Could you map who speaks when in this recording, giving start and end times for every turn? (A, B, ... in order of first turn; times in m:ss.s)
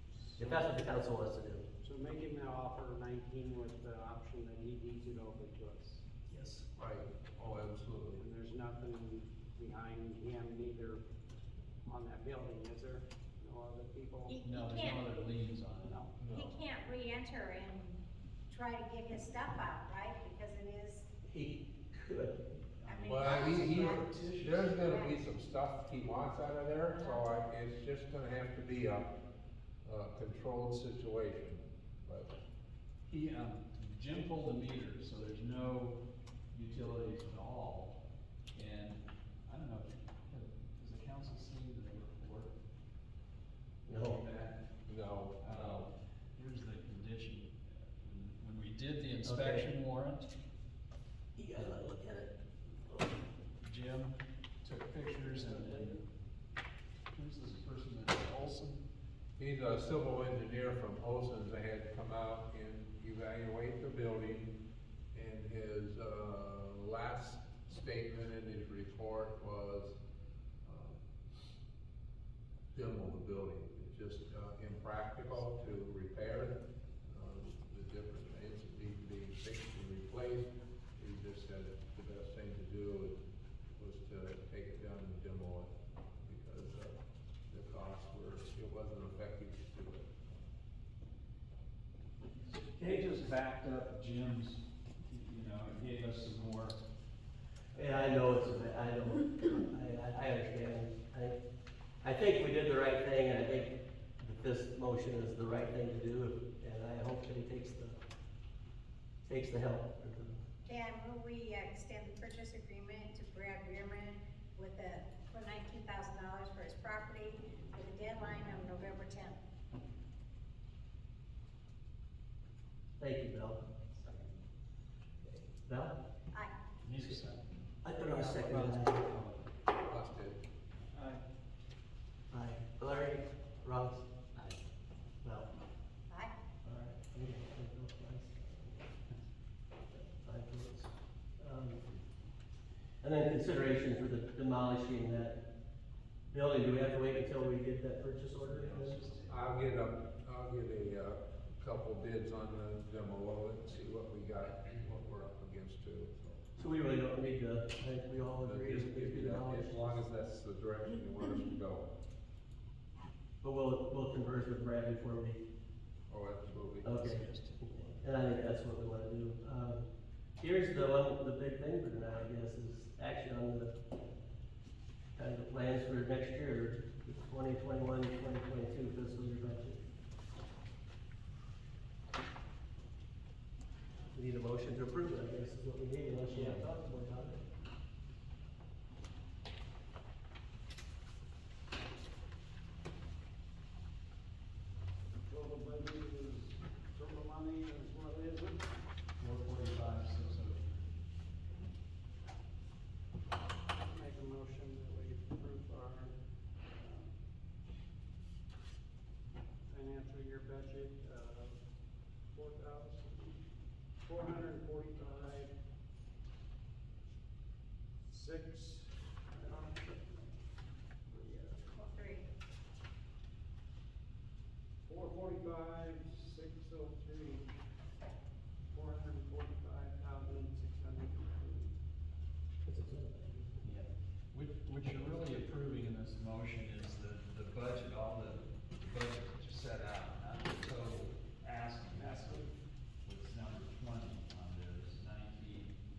0:00.3-0:00.6 A
0:00.4-0:01.6 B
0:01.8-0:06.0 A
0:06.3-0:06.6 B
0:06.7-0:08.2 C
0:08.2-0:11.0 A
0:11.8-0:14.4 A
0:14.3-0:15.1 D
0:14.4-0:16.1 E
0:16.2-0:16.6 C
0:16.3-0:21.0 D
0:21.2-0:22.6 B
0:22.8-0:24.8 E
0:22.8-0:24.0 D
0:23.0-0:29.1 C
0:24.7-0:25.1 D
0:26.9-0:27.3 D
0:29.8-0:32.3 C
0:33.1-0:36.0 E
0:36.5-0:38.0 E
0:38.5-0:42.5 E
0:43.9-0:44.2 B
0:43.9-0:44.6 E
0:44.9-0:45.9 C
0:45.4-0:50.3 E
0:49.2-0:49.7 B
0:51.4-0:52.3 B
0:53.6-0:56.0 E
0:55.3-0:56.0 B
0:57.1-0:58.8 E
0:59.4-1:04.6 C
1:05.1-1:10.0 C
1:10.6-1:11.0 C
1:12.7-1:23.2 C
1:23.7-1:27.0 C
1:27.5-1:30.4 C
1:32.4-1:36.8 E
1:37.7-1:41.4 B
1:37.8-1:38.4 E
1:42.0-1:48.0 B
1:49.2-1:50.4 B
1:50.6-1:59.4 D
2:03.0-2:03.6 B
2:05.3-2:06.0 B
2:06.8-2:09.5 E
2:07.8-2:09.0 B
2:09.9-2:10.4 C
2:12.3-2:14.0 B
2:14.3-2:14.6 E
2:15.2-2:15.5 B
2:16.1-2:16.3 D
2:16.6-2:18.9 B
2:19.9-2:21.8 B
2:23.0-2:25.4 B
2:26.3-2:29.0 B
2:28.4-2:29.4 E
2:29.3-2:36.4 C
2:36.6-2:40.0 B
2:38.4-2:41.9 C
2:43.4-2:45.4 B
2:46.1-2:46.9 C
2:46.8-2:48.0 E
2:46.8-2:47.2 B
2:47.8-2:49.8 B
2:50.4-2:53.8 B
2:55.2-2:59.8 B
3:04.1-3:07.4 B
3:06.3-3:06.6 E
3:15.1-3:18.7 A
3:19.2-3:20.7 E
3:23.7-3:27.2 A
3:29.7-3:31.5 A
3:32.3-3:33.4 A
3:34.0-3:35.5 A
3:38.1-3:40.4 A
3:41.1-3:41.6 A
3:41.6-3:42.2 D
3:44.8-3:47.5 A
3:48.7-3:51.7 A
3:52.6-3:53.6 B
3:53.6-4:05.7 E
4:01.9-4:02.5 A